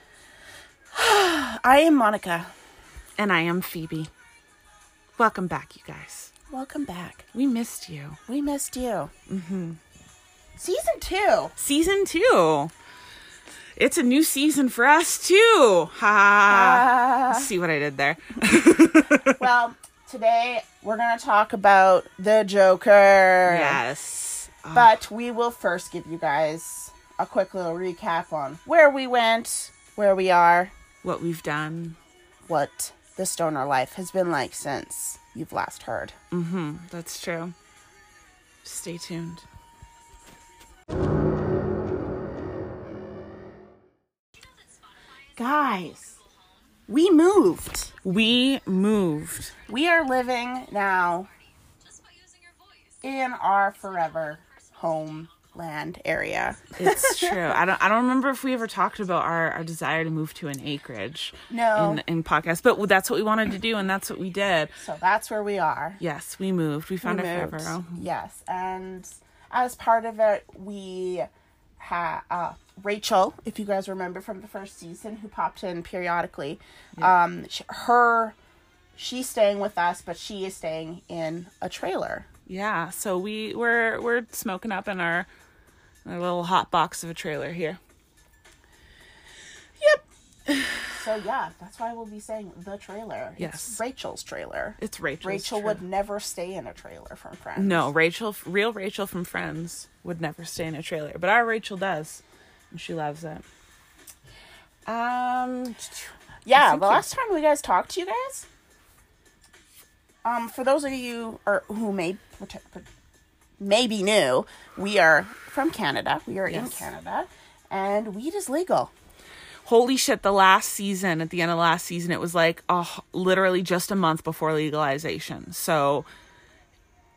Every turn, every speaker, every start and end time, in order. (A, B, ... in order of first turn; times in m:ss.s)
0:00.9-0:02.5 A
0:03.2-0:04.1 B
0:05.2-0:06.3 B
0:06.5-0:07.3 A
0:07.3-0:08.2 B
0:08.2-0:09.1 A
0:09.3-0:09.8 B
0:10.6-0:11.5 A
0:11.6-0:12.7 B
0:13.8-0:19.4 B
0:16.5-0:17.5 A
0:19.2-0:23.8 A
0:23.4-0:25.0 B
0:24.7-0:30.7 A
0:31.0-0:32.0 B
0:32.5-0:36.2 A
0:36.3-0:37.5 B
0:38.6-0:39.4 B
0:45.4-0:46.2 A
0:46.9-0:47.9 A
0:48.0-0:49.6 B
0:49.7-0:51.3 A
0:53.0-0:57.6 A
0:56.8-1:04.8 B
1:01.5-1:02.0 A
1:04.8-1:06.0 A
1:06.0-1:08.0 B
1:07.0-1:11.3 A
1:11.8-1:18.4 A
1:19.0-1:22.3 A
1:22.4-1:25.3 B
1:26.0-1:27.8 B
1:29.8-1:30.9 B
1:30.9-1:37.9 A
1:33.4-1:33.8 B
1:34.8-1:35.8 B
1:37.6-1:43.4 B
1:44.8-1:47.0 B
1:46.4-1:48.4 A
1:50.2-1:52.8 A
1:53.6-1:58.9 A
1:56.5-1:56.9 B
1:59.6-2:06.1 B